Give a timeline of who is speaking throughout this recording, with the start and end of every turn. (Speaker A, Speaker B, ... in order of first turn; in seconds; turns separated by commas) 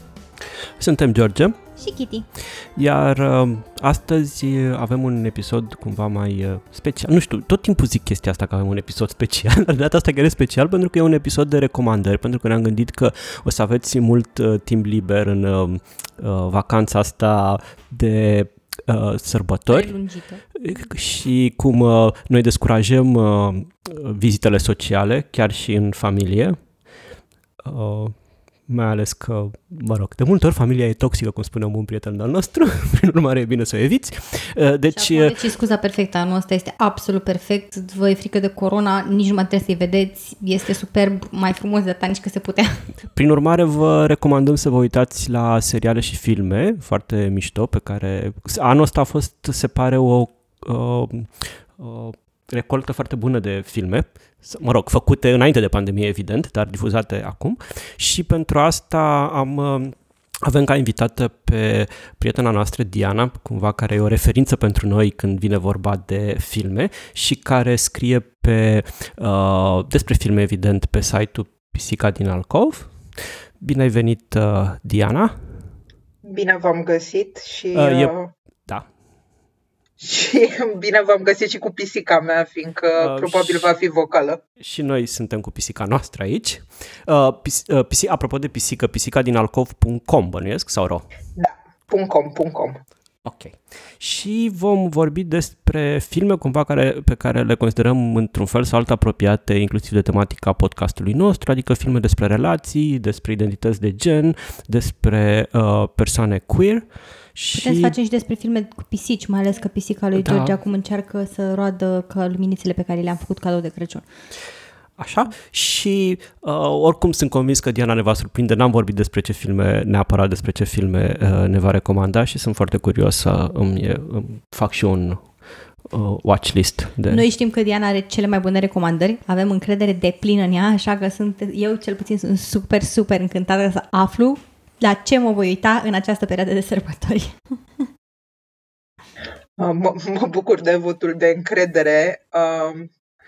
Speaker A: 0.8-1.7, Speaker B: 1.8-2.3, Speaker A: 2.8-26.8, Speaker B: 19.7-20.4, Speaker A: 27.6-35.4, Speaker B: 34.9-42.9, Speaker A: 43.1-75.7, Speaker C: 76.2-78.3, Speaker A: 77.7-78.9, Speaker C: 80.0-84.4, Speaker A: 83.0-83.7, Speaker A: 84.6-91.0, Speaker C: 91.4-92.8, Speaker A: 93.2-107.9, Speaker B: 107.5-114.1, Speaker A: 110.2-110.6, Speaker A: 115.0-127.2, Speaker B: 127.1-137.8, Speaker C: 139.6-142.9